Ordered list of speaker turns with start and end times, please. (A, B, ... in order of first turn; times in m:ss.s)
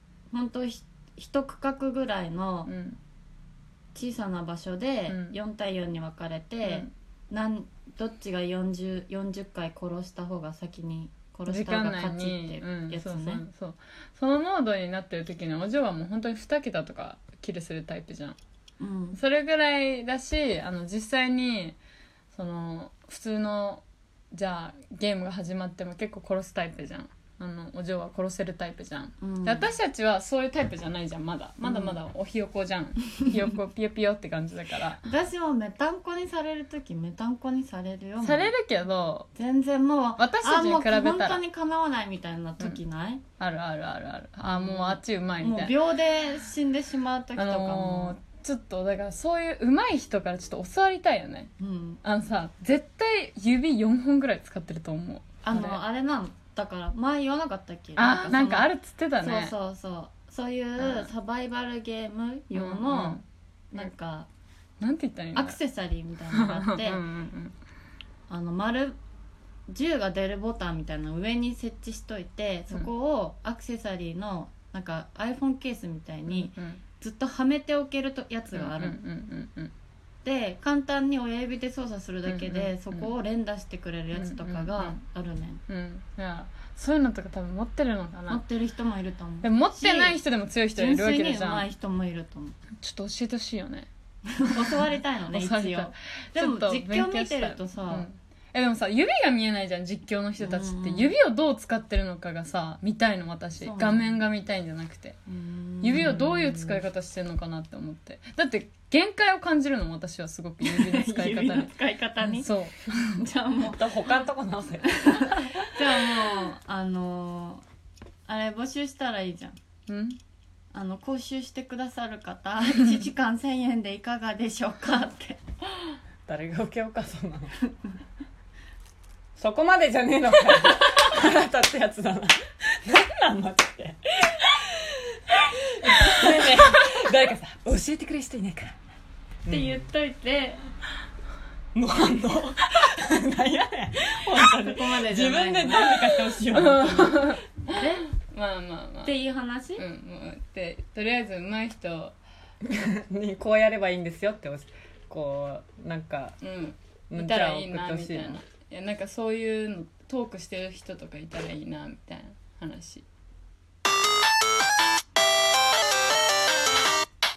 0:00.3-0:02.7 A
0:02.6-0:03.0 B
0:03.9-0:13.4 A
0:05.1-0:05.4 B
0:06.6-0:06.9 B
0:11.4-0:18.4 B
0:18.8-0:19.2 A
0:19.1-0:21.8 B
0:22.3-0:35.0 B
0:29.2-0:29.7 A
0:31.6-0:32.0 A
0:35.0-0:38.5 A
0:38.2-0:39.3 B
0:39.3-0:43.2 A
0:40.2-0:41.4 B
0:43.4-0:45.8 B
0:44.4-0:48.2 A
0:47.4-0:51.5 B
0:51.6-0:52.0 A
0:52.0-0:55.8 B
0:55.4-1:04.3 A
0:58.0-0:59.5 B
1:00.8-1:01.1 B
1:02.5-1:03.2 B
1:04.8-1:05.6 B
1:05.3-1:07.0 A
1:06.3-1:07.5 B
1:08.3-1:09.0 A
1:09.7-1:19.0 A
1:16.3-1:16.8 B
1:18.5-1:19.7 B
1:20.2-1:25.6 A
1:22.2-1:23.1 B
1:24.1-1:25.0 B
1:25.7-1:28.4 B
1:28.3-1:30.2 A
1:29.4-1:31.6 B
1:30.7-1:32.6 A
1:32.8-1:33.9 B
1:34.3-1:38.1 A
1:34.4-1:45.2 B
1:40.4-1:41.1 A
1:43.6-1:44.2 A
1:45.3-1:46.2 A
1:45.8-1:53.2 B
1:46.3-1:46.8 C
1:50.6-1:52.5 A
1:53.1-1:54.2 A
1:53.7-1:55.8 C
1:54.8-1:57.6 A
1:58.3-1:59.6 A
1:59.9-2:00.2 B
2:00.7-2:05.4 A
2:06.3-2:07.5 C
2:09.4-2:18.7 C
2:19.4-2:19.8 C
2:19.4-2:20.6 A
2:21.7-2:27.3 C
2:24.4-2:25.9 A
2:25.9-2:29.2 B
2:27.7-2:28.1 A
2:29.0-2:29.8 A
2:29.8-2:32.2 B
2:32.6-2:36.4 C
2:36.4-2:43.0 B
2:37.1-2:38.4 C